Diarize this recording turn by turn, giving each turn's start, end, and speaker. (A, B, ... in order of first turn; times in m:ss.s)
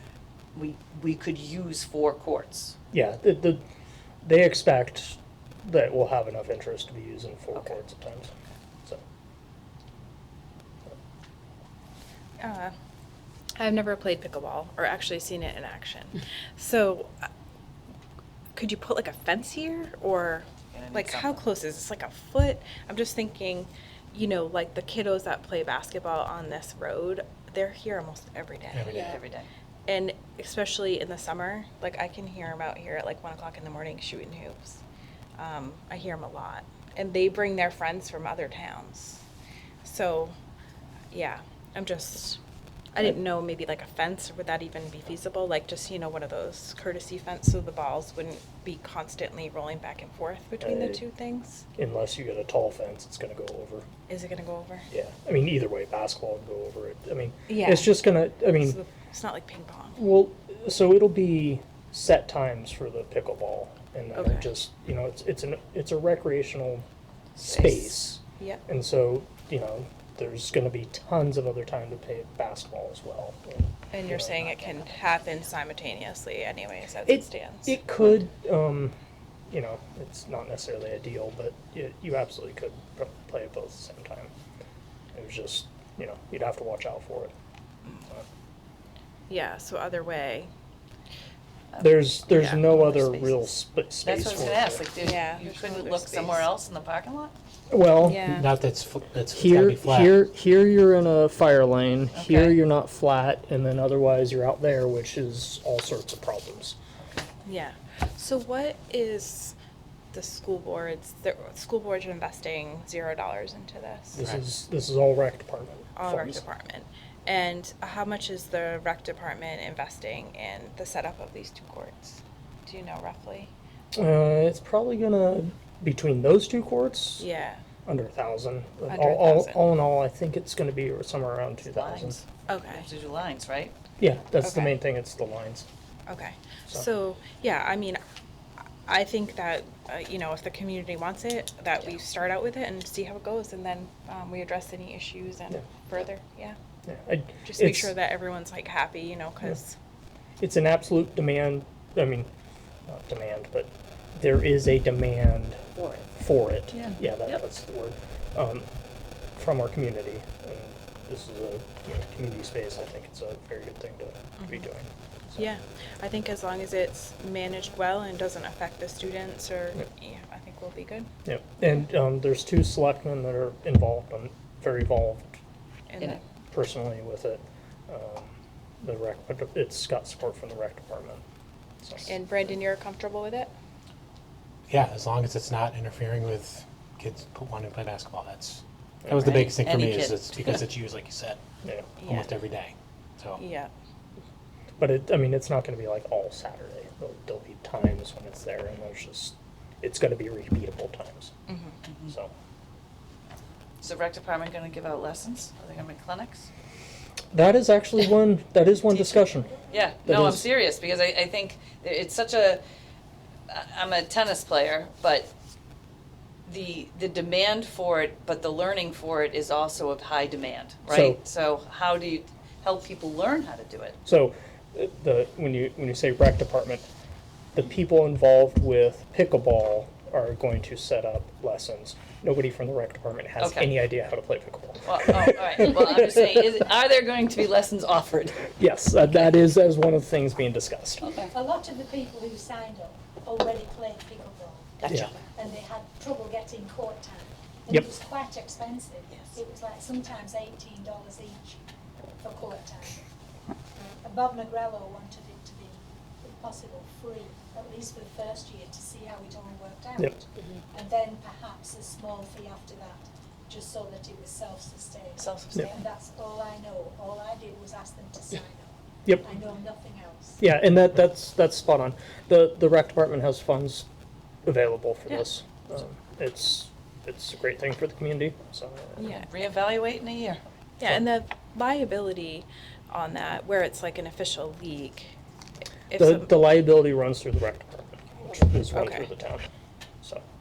0:00.5-0:02.8 A
0:02.9-0:03.6 B
0:04.2-0:08.3 B
0:12.4-0:12.7 C
0:13.6-0:17.2 C
0:18.6-0:29.2 C
0:20.7-0:21.4 A
0:28.7-0:29.2 D
0:28.8-0:29.5 A
0:29.9-0:34.8 C
0:35.4-0:39.2 C
0:39.8-0:40.3 C
0:41.1-0:42.4 C
0:42.9-0:51.6 C
0:50.6-0:51.0 B
0:51.8-0:53.9 B
0:54.1-0:54.9 C
0:54.9-0:58.8 B
0:57.5-0:58.0 C
0:58.5-1:00.0 C
1:00.0-1:06.8 B
1:04.1-1:04.5 C
1:07.4-1:08.0 A
1:07.4-1:14.5 B
1:13.9-1:17.8 C
1:14.3-1:15.3 A
1:17.0-1:18.9 B
1:19.5-1:24.3 B
1:25.1-1:27.3 B
1:29.3-1:30.5 C
1:31.7-1:33.5 A
1:31.8-1:34.8 B
1:32.3-1:32.6 C
1:34.0-1:37.3 A
1:35.0-1:36.5 C
1:37.7-1:38.5 B
1:38.0-1:38.5 C
1:38.3-1:40.2 D
1:39.3-1:46.8 B
1:42.1-1:42.6 A
1:47.4-1:49.5 C
1:50.1-1:54.2 C
1:54.1-1:56.4 B
1:55.9-2:03.5 C
2:03.9-2:07.2 B
2:07.2-2:07.6 C
2:07.8-2:12.2 B
2:08.9-2:09.6 C
2:11.6-2:13.7 A
2:12.5-2:12.9 C
2:14.0-2:15.6 B
2:14.4-2:14.8 C
2:16.1-2:18.0 C
2:18.8-2:26.6 C
2:26.8-2:27.9 B
2:27.4-2:29.8 C
2:30.4-2:32.3 B
2:32.9-2:35.6 B
2:35.8-2:36.1 A
2:36.2-2:38.7 B
2:36.7-2:37.0 A
2:39.4-2:45.5 B
2:44.4-2:44.7 C
2:45.4-2:51.1 C
2:51.2-2:55.4 B
2:55.9-2:56.2 C
2:56.5-3:01.2 B
3:01.8-3:02.1 B
3:02.0-3:03.5 C
3:04.7-3:11.4 D
3:09.0-3:09.4 B
3:09.2-3:10.6 A
3:11.6-3:12.0 B
3:12.0-3:12.3 C
3:12.0-3:13.4 D
3:13.4-3:13.7 C
3:14.8-3:21.3 B
3:21.5-3:21.8 C
3:21.9-3:22.1 A
3:22.0-3:22.3 B
3:23.8-3:26.5 A
3:27.3-3:30.4 B
3:28.9-3:32.6 A
3:33.5-3:35.3 A
3:36.5-3:44.0 A
3:40.9-3:41.2 B
3:44.0-3:46.9 B
3:47.5-3:56.4 B
3:53.4-3:53.8 A
3:54.8-3:58.5 A
3:58.6-4:01.1 B
4:01.0-4:01.3 A
4:01.3-4:04.8 E
4:04.8-4:05.3 A
4:05.3-4:11.6 E
4:09.1-4:09.4 A
4:12.2-4:13.0 E
4:14.0-4:30.4 E
4:25.2-4:25.8 A
4:30.4-4:33.9 B
4:34.4-4:39.2 B
4:39.0-4:39.3 C
4:39.1-4:40.4 A
4:40.8-4:45.2 C
4:45.9-4:46.4 C
4:45.9-4:49.5 B
4:48.7-4:49.1 C